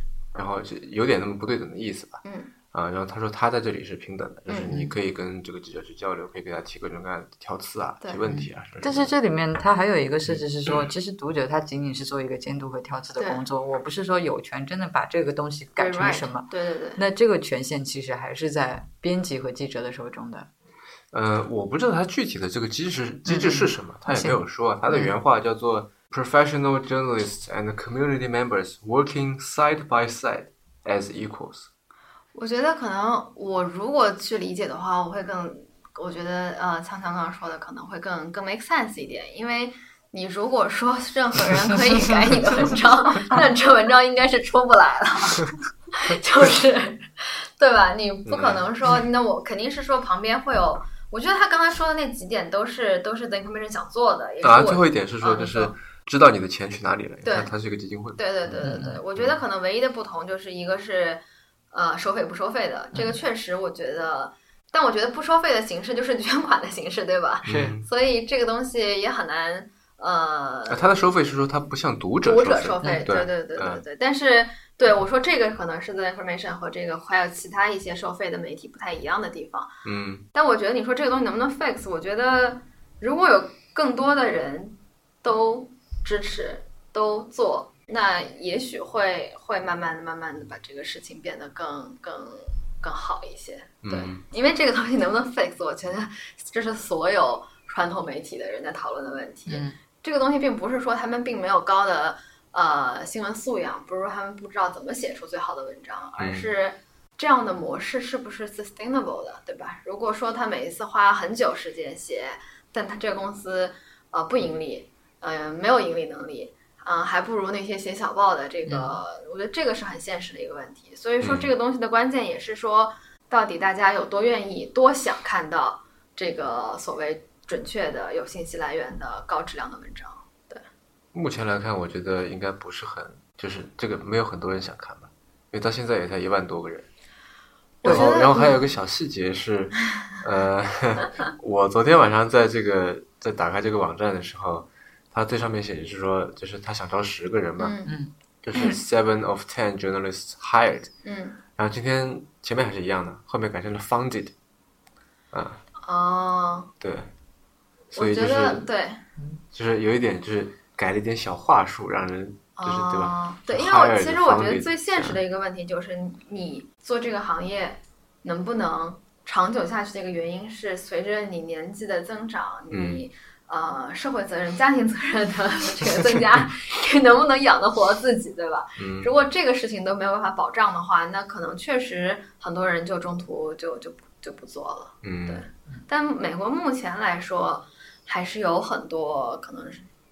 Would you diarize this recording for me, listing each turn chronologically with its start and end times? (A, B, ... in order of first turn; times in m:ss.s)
0:00.3-0:09.1 A
0:02.2-0:02.5 B
0:04.5-0:04.7 B
0:08.2-0:20.5 C
0:10.3-0:10.9 A
0:15.8-0:17.0 B
0:21.1-0:31.7 A
0:23.2-0:25.1 C
0:32.3-0:55.7 B
0:48.2-0:48.6 A
0:54.4-0:59.4 A
0:57.2-0:57.5 B
0:58.2-1:01.2 B
0:58.6-0:59.0 C
1:01.7-1:11.0 B
1:07.4-1:07.8 A
1:07.5-1:07.8 C
1:10.7-1:13.8 A
1:12.2-1:19.7 B
1:19.8-1:20.2 A
1:20.3-2:10.6 B
1:33.8-1:34.2 A
1:39.5-1:39.8 C
1:46.2-1:46.5 A
1:58.7-1:59.0 C
2:01.2-2:01.5 A
2:11.1-2:16.9 A
2:17.8-2:18.5 B
2:17.8-2:27.8 A
2:27.6-2:27.9 B
2:27.8-2:28.8 C
2:28.4-2:30.9 A
2:31.0-2:31.4 B
2:31.6-2:34.3 A
2:35.3-2:35.6 A
2:35.8-2:36.7 B
2:36.8-2:37.1 A
2:37.9-2:38.6 A
2:37.9-2:39.0 B
2:39.5-2:45.2 A
2:42.6-3:09.9 B
2:52.7-2:53.0 A
2:58.8-2:59.1 A
3:05.0-3:05.4 A